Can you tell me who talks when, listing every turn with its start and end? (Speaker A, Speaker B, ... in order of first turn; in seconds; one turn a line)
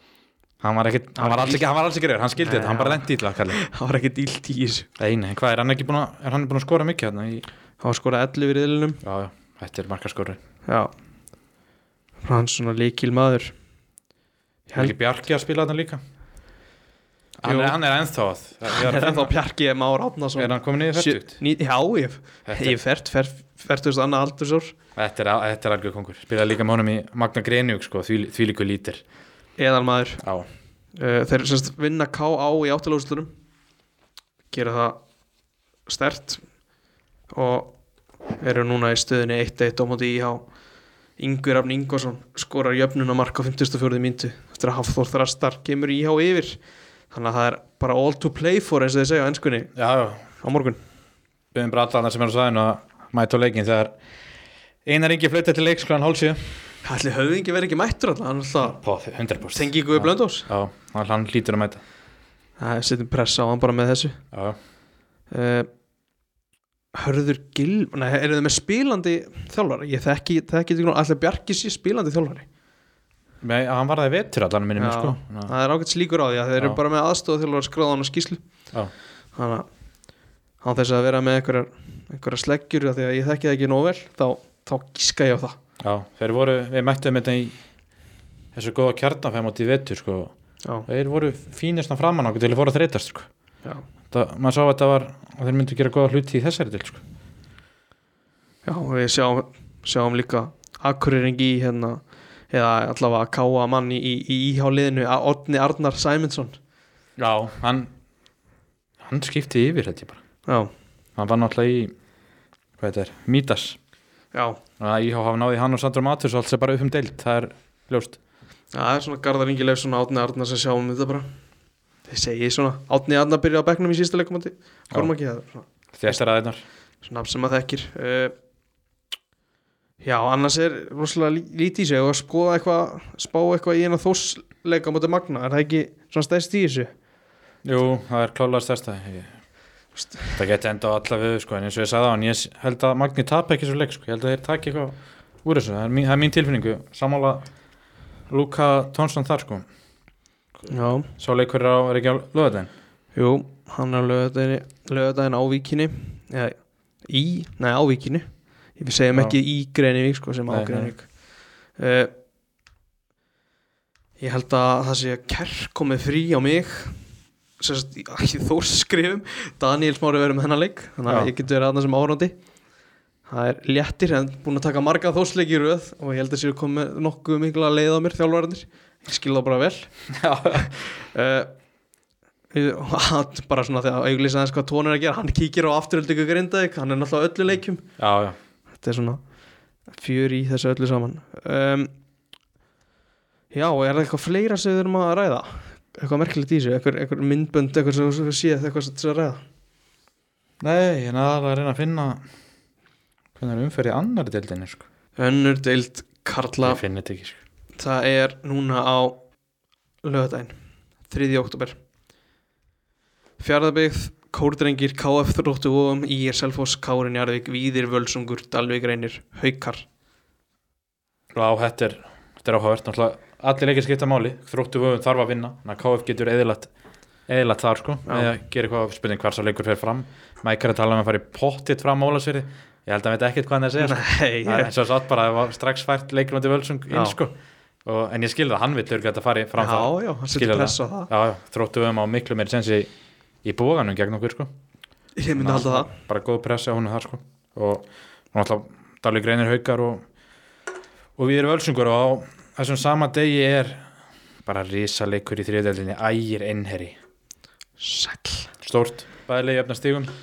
Speaker A: 0.6-3.6
Speaker B: 1.2-1.7
Speaker B: 2.4-4.9
Speaker A: 5.0-7.5
Speaker B: 7.8-9.0
Speaker A: 9.0-10.4
Speaker B: 10.7-10.9
Speaker B: 12.2-13.5
Speaker B: 14.7-14.9
Speaker A: 14.8-16.0
Speaker A: 17.4-19.3
Speaker B: 17.4-17.8
Speaker B: 18.6-24.7
Speaker A: 20.4-21.4
Speaker A: 22.5-22.8
Speaker A: 25.0-29.0
Speaker B: 29.6-30.2
Speaker A: 30.2-30.5
Speaker B: 30.9-33.3
Speaker B: 34.5-35.0
Speaker B: 35.9-36.4
Speaker B: 37.3-37.7
Speaker B: 38.4-40.5
Speaker B: 41.2-46.6
Speaker B: 47.1-49.7
Speaker A: 49.8-50.3
Speaker B: 50.4-50.8
Speaker A: 51.5-53.9
Speaker A: 54.9-56.5
Speaker B: 56.8-58.8
Speaker A: 58.8-61.8
Speaker B: 59.5-60.5
Speaker B: 62.6-64.2
Speaker A: 64.3-64.6
Speaker B: 65.3-65.7
Speaker B: 66.9-72.5
Speaker A: 73.4-75.5
Speaker B: 74.8-78.4
Speaker B: 79.3-79.7
Speaker B: 80.6-85.6
Speaker A: 85.8-87.6
Speaker A: 88.5-90.3
Speaker A: 90.9-93.3
Speaker A: 94.1-97.0
Speaker B: 98.7-106.6
Speaker A: 107.2-107.9
Speaker A: 109.0-110.2
Speaker B: 110.5-110.7
Speaker A: 111.2-111.9
Speaker A: 112.8-113.8
Speaker B: 114.3-114.6
Speaker A: 114.8-118.2
Speaker B: 118.7-121.3
Speaker B: 122.1-126.2
Speaker A: 125.9-126.6
Speaker B: 127.0-128.3
Speaker B: 130.0-136.9
Speaker A: 137.7-139.4
Speaker B: 140.0-140.3
Speaker A: 140.3-147.5
Speaker A: 148.3-149.7
Speaker B: 150.7-151.1
Speaker A: 151.2-152.7
Speaker B: 153.1-161.1
Speaker A: 160.5-160.9
Speaker B: 161.8-162.1
Speaker B: 164.2-167.0
Speaker B: 167.6-172.4
Speaker B: 173.3-179.9
Speaker A: 180.1-180.7
Speaker B: 180.5-181.5
Speaker B: 182.5-187.8
Speaker A: 188.0-188.4
Speaker B: 188.8-189.2
Speaker B: 189.9-191.9
Speaker B: 193.5-199.4
Speaker A: 200.6-202.2
Speaker A: 203.4-204.9
Speaker B: 205.2-206.8
Speaker A: 206.6-207.4
Speaker B: 207.8-209.2
Speaker B: 210.0-210.6
Speaker B: 211.1-211.8
Speaker B: 213.4-219.8
Speaker A: 221.3-226.7
Speaker A: 227.3-242.9
Speaker B: 233.8-234.7
Speaker B: 236.9-237.2
Speaker B: 239.6-241.1
Speaker A: 243.4-244.5
Speaker B: 245.2-245.9
Speaker A: 245.4-250.0
Speaker A: 251.2-253.9
Speaker A: 254.4-257.0
Speaker B: 257.8-258.5
Speaker A: 258.6-260.1